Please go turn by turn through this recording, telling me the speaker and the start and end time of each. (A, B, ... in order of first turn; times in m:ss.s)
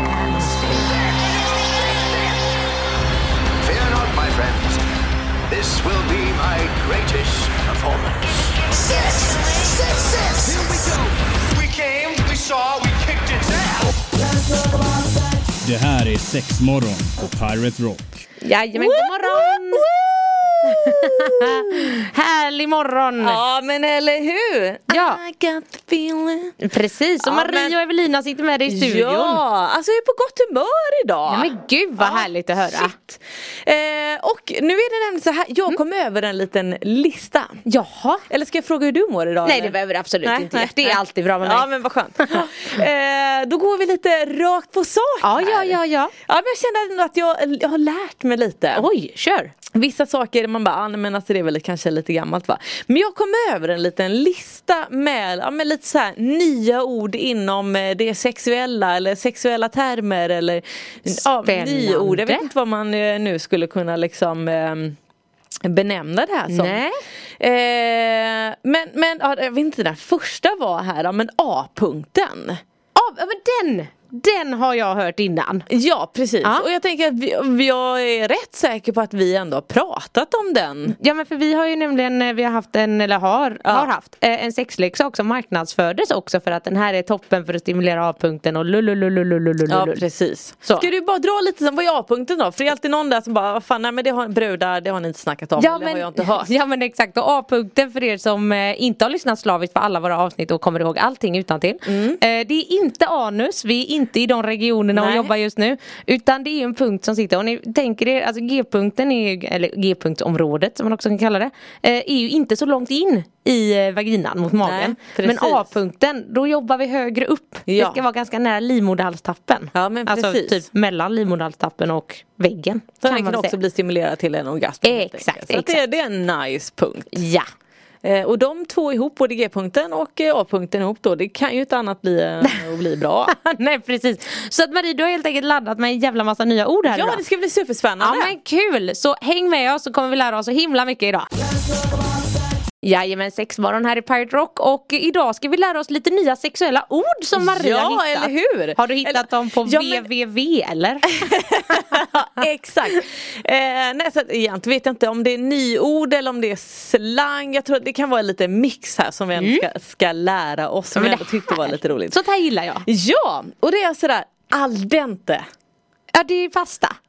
0:00.3-0:00.7 A
0:03.6-0:04.8 B
0:05.5-0:11.0 B
0:11.5-0:13.9 B
0:15.6-0:18.0 C
0:18.4-0:19.8 D
0:18.7-0:21.9 A
0:20.6-0:23.4 D
0:23.2-0:26.6 A
0:24.9-0:25.2 D
0:26.6-0:29.4 D
0:27.2-0:27.8 A
0:28.6-0:37.6 A
0:31.3-0:32.9 D
0:37.6-0:38.2 D
0:38.3-0:48.9 A
0:39.4-0:42.5 D
0:45.2-0:46.1 D
0:48.7-0:49.5 D
0:49.7-1:05.0 A
1:01.4-1:02.5 D
1:05.6-1:06.8 A
1:06.5-1:07.0 D
1:07.4-1:12.6 A
1:12.9-1:15.7 D
1:15.7-1:21.0 A
1:20.9-1:30.0 D
1:23.6-1:23.9 A
1:29.7-1:36.5 A
1:35.6-2:03.6 D
1:41.8-1:42.2 A
1:44.9-1:45.3 A
1:54.6-1:55.7 A
1:57.7-1:58.0 A
1:59.7-2:00.6 A
2:03.0-2:07.2 A
2:04.8-2:05.8 D
2:07.1-2:07.4 D
2:08.0-2:13.3 A
2:13.3-2:17.2 D
2:16.9-2:18.3 A
2:18.0-2:21.3 D
2:22.8-2:31.1 D
2:27.4-2:30.1 A
2:31.1-2:42.2 A
2:39.4-2:39.6 D
2:40.9-2:42.8 D
2:42.8-2:45.4 A
2:46.1-2:47.0 D